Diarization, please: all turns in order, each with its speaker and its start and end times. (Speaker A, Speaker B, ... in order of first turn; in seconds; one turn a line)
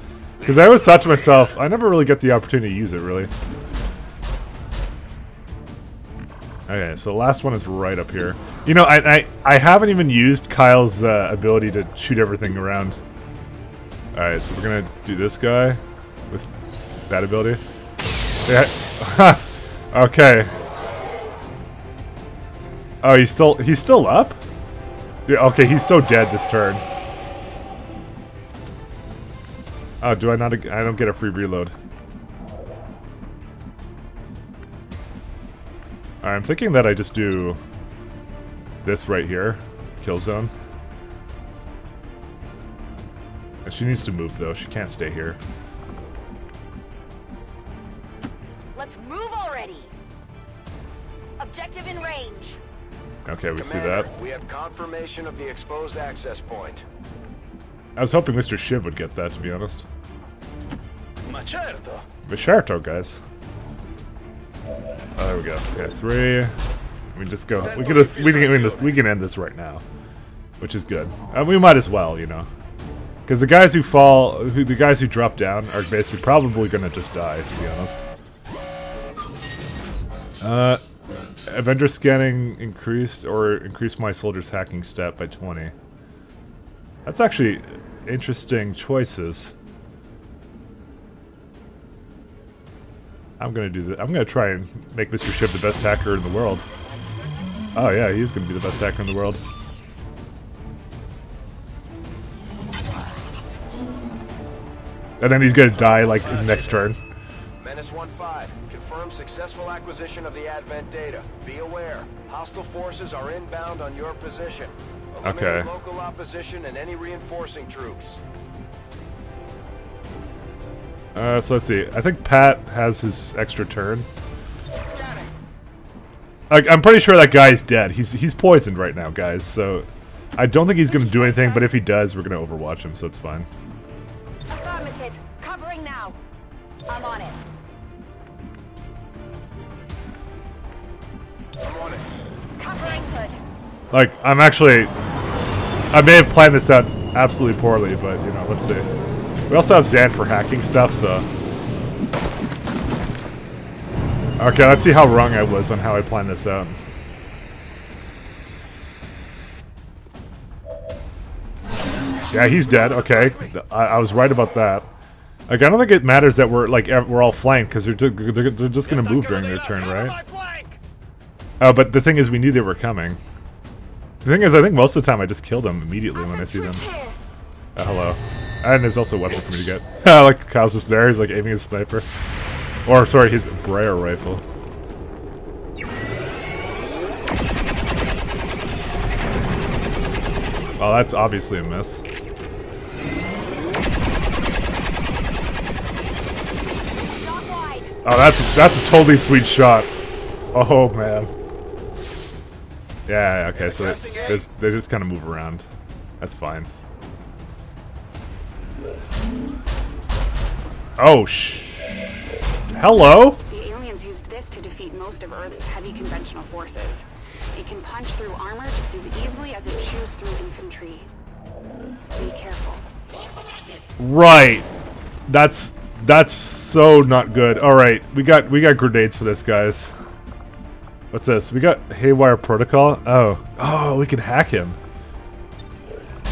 Speaker A: 0.4-1.6
Speaker B: 0.4-3.3
Speaker B: 6.7-13.0
Speaker B: 14.1-16.5
Speaker B: 17.1-17.6
Speaker B: 18.4-20.5
Speaker B: 23.0-24.4
Speaker B: 25.3-26.8
Speaker B: 30.0-31.7
Speaker B: 36.2-37.6
Speaker B: 38.8-40.5
Speaker B: 43.6-45.4
Speaker C: 48.8-49.9
Speaker C: 51.4-52.6
Speaker B: 53.2-54.1
Speaker D: 53.5-56.8
Speaker B: 58.0-59.9
Speaker A: 61.2-62.0
Speaker B: 62.3-63.2
Speaker B: 65.2-66.5
Speaker B: 67.1-69.8
Speaker A: 67.7-68.9
Speaker B: 70.6-72.5
Speaker B: 73.3-78.0
Speaker B: 80.4-80.8
Speaker B: 81.5-85.7
Speaker B: 87.0-89.5
Speaker B: 93.4-96.6
Speaker B: 97.7-99.4
Speaker B: 105.2-107.0
Speaker D: 105.8-106.9
Speaker D: 107.6-118.2
Speaker B: 115.2-115.7
Speaker B: 121.1-124.1
Speaker D: 124.8-125.3
Speaker B: 126.5-133.5
Speaker C: 130.8-131.7
Speaker C: 134.5-136.2
Speaker C: 136.9-137.4
Speaker D: 141.6-142.0
Speaker C: 142.6-143.4
Speaker B: 143.9-144.9
Speaker B: 145.9-148.9
Speaker B: 149.5-151.2
Speaker B: 154.4-156.8
Speaker B: 162.3-164.9
Speaker B: 165.5-170.2
Speaker A: 169.1-169.9
Speaker B: 171.6-173.2
Speaker B: 174.2-176.9
Speaker C: 176.4-177.1
Speaker B: 177.8-182.1
Speaker B: 182.8-184.4
Speaker B: 190.8-192.0
Speaker C: 197.1-197.9
Speaker B: 198.0-199.9
Speaker B: 200.5-201.3
Speaker B: 203.1-205.7
Speaker D: 203.5-204.4
Speaker B: 206.2-206.7
Speaker B: 211.0-211.9
Speaker B: 212.7-213.4
Speaker E: 213.5-221.1
Speaker E: 222.1-222.9
Speaker B: 224.0-224.7
Speaker B: 225.3-229.9
Speaker B: 231.1-234.8